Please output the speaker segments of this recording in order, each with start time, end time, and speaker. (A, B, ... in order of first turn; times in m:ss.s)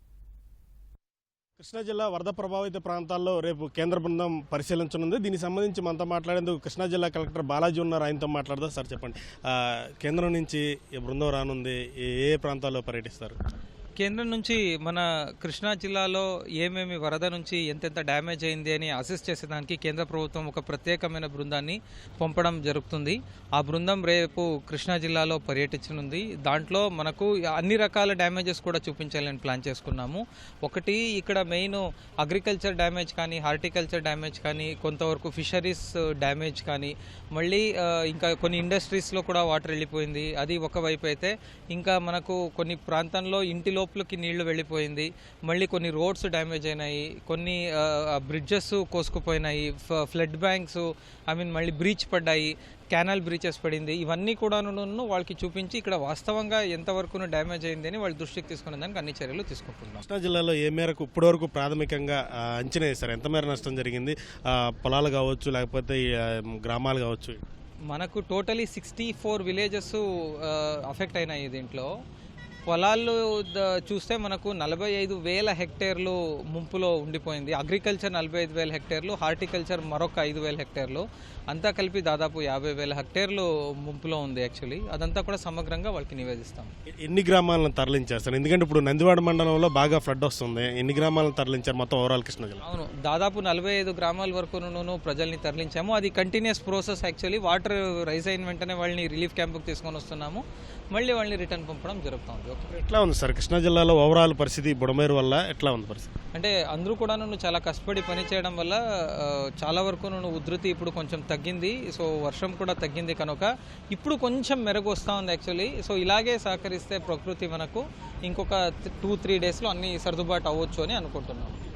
0:01.6-0:13.4 A
0:14.0-1:00.0 B
1:00.0-1:07.4 A
1:07.9-1:11.9 B
1:12.7-1:26.7 B
1:27.1-1:32.6 A
1:32.6-1:42.7 B
1:42.7-1:46.1 A
1:46.3-2:01.6 B